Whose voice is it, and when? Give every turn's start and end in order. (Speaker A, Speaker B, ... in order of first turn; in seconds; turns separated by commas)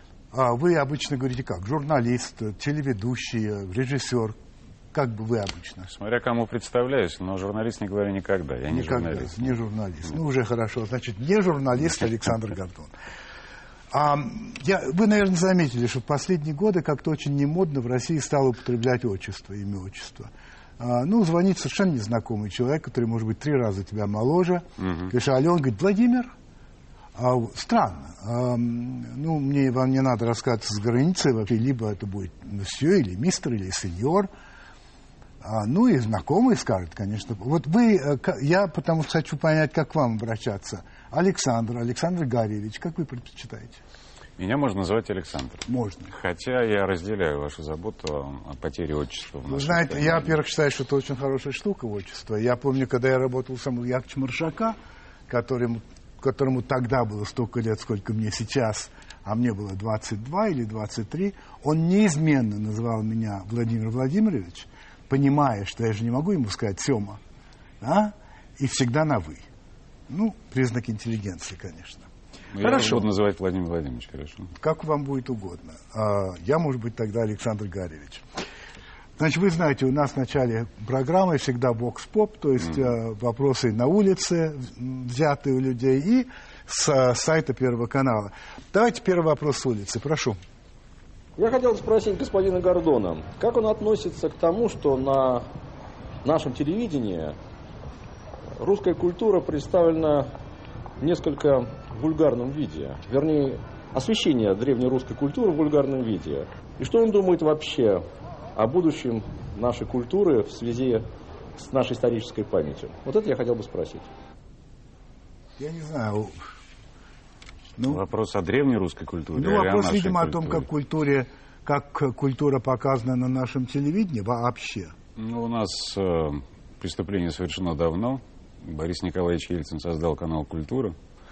Speaker A: 0.3-4.4, Speaker A: 4.9-5.9, Speaker B: 5.9-9.6, Speaker A: 8.7-12.9, Speaker A: 13.9-26.3, Speaker B: 24.8-25.1, Speaker A: 27.2-34.3, Speaker A: 35.4-43.8, Speaker B: 44.4-50.4, Speaker A: 45.7-46.1, Speaker A: 49.5-54.8, Speaker A: 55.3-67.2, Speaker A: 67.8-69.5, Speaker A: 70.1-72.1, Speaker B: 72.5-74.5, Speaker A: 72.6-73.1, Speaker A: 74.6-78.2, Speaker A: 79.2-90.4, Speaker C: 91.4-95.5, Speaker C: 96.2-97.4, Speaker C: 98.6-100.3, Speaker C: 101.0-114.1, Speaker A: 115.6-116.4, Speaker B: 117.9-120.7, Speaker A: 119.3-124.9, Speaker B: 125.2-130.9